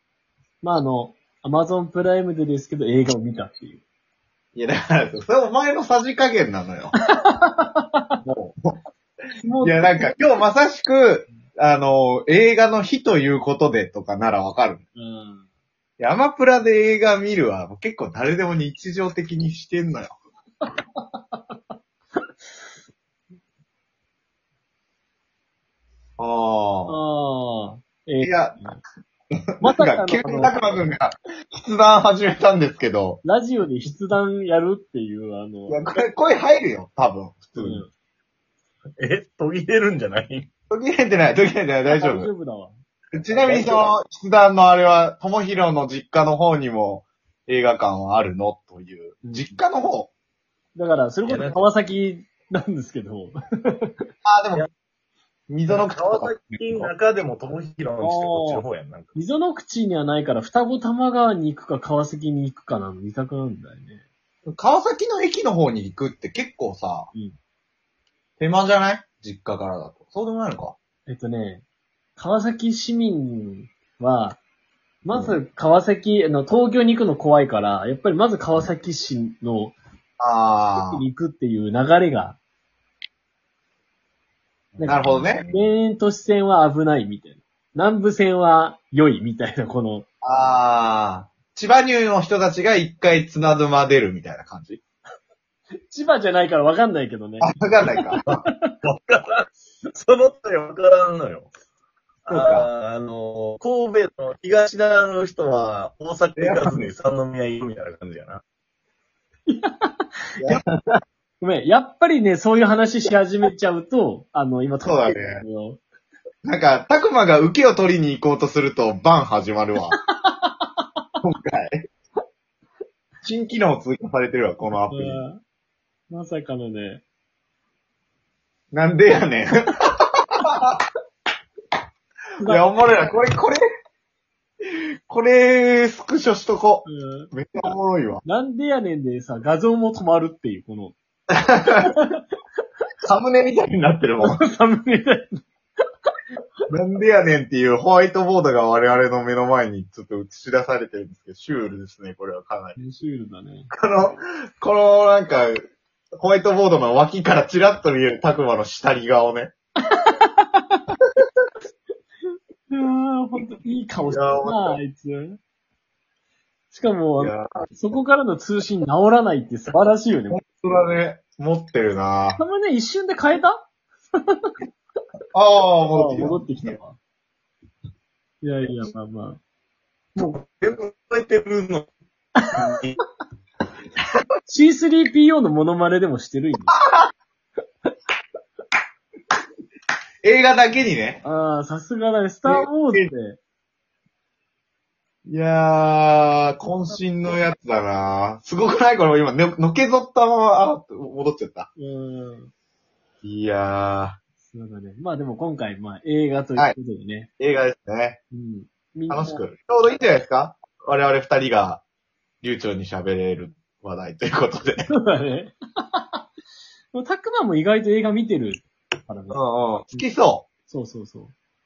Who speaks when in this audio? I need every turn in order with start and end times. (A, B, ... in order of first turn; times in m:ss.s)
0:00.6-0:03.8 A
0:04.6-0:06.9 B
0:07.0-0:08.2 A
0:08.2-0:08.8 B
0:09.4-0:10.1 A
0:09.6-0:14.8 B
0:15.0-0:15.5 A
0:16.0-0:20.2 B
0:20.7-0:21.6 A
0:26.2-0:27.0 B
0:26.9-0:28.8 A
0:28.2-0:28.6 B
0:29.6-0:30.7 A
0:29.6-0:33.2 B
0:33.2-0:35.8 A
0:35.7-0:37.8 B
0:37.6-0:37.9 A
0:39.0-0:40.5 C
0:40.7-0:42.3 B
0:41.9-0:42.8 A
0:43.1-0:50.1 B
0:43.4-0:43.8 A
0:49.2-0:49.5 A
0:50.8-0:53.9 A
0:51.2-0:51.6 C
0:54.2-0:54.7 B
0:55.5-0:56.9 B
0:55.7-0:59.2 C
0:58.0-0:58.6 A
0:59.2-1:04.0 A
1:04.5-1:07.1 B
1:08.4-1:10.8 B
1:11.1-1:11.6 A
1:12.2-1:14.4 A
1:15.0-1:19.8 A
1:15.1-1:15.4 B
1:20.2-1:21.0 B
1:20.8-1:22.4 A
1:24.8-1:30.1 A
1:24.8-1:25.5 B
1:30.2-1:34.8 B
1:35.9-1:38.8 A
1:37.4-1:38.4 B
1:38.8-1:41.5 C
1:42.3-1:48.4 C
1:42.3-1:42.7 B
1:46.4-1:46.9 B
1:49.5-1:50.1 A
1:50.4-1:51.0 B
1:51.4-1:55.8 A
1:54.8-1:55.4 B
1:56.4-2:00.0 B
2:00.2-2:00.9 A
2:01.2-2:01.8 B
2:03.2-2:05.2 B
2:04.9-2:05.4 A
2:06.1-2:07.0 A
2:08.7-2:10.8 B
2:12.4-2:13.6 B
2:14.6-2:18.2 B
2:16.9-2:17.3 A
2:18.2-2:21.0 A
2:21.4-2:21.9 B
2:21.8-2:22.1 A
2:23.0-2:24.4 B
2:24.2-2:25.4 A
2:26.7-2:32.8 B
2:32.8-2:33.7 A
2:33.7-2:39.5 B
2:39.9-2:40.8 A
2:42.7-2:45.4 A
2:44.1-2:44.8 B
2:46.7-2:50.4 A
2:47.2-2:47.5 B
2:50.3-2:52.4 B
2:52.4-2:53.7 A
2:54.2-2:54.5 A
2:55.3-2:56.8 B
2:55.9-2:57.0 A
2:58.4-2:59.4 A
3:00.2-3:01.9 C
3:02.5-3:03.0 C
3:04.4-3:06.8 A
3:06.7-3:07.1 B
3:10.2-3:11.2 B
3:11.2-3:13.4 A
3:12.5-3:13.1 B
3:15.3-3:21.7 B
3:21.8-3:22.5 A
3:23.2-3:24.2 B
3:24.4-3:27.3 A
3:27.4-3:28.2 B
3:28.3-3:29.4 A
3:29.1-3:31.8 B
3:32.4-3:34.9 B
3:34.9-3:36.2 A
3:36.9-3:39.4 A
3:39.3-3:40.5 B
3:40.7-3:41.3 A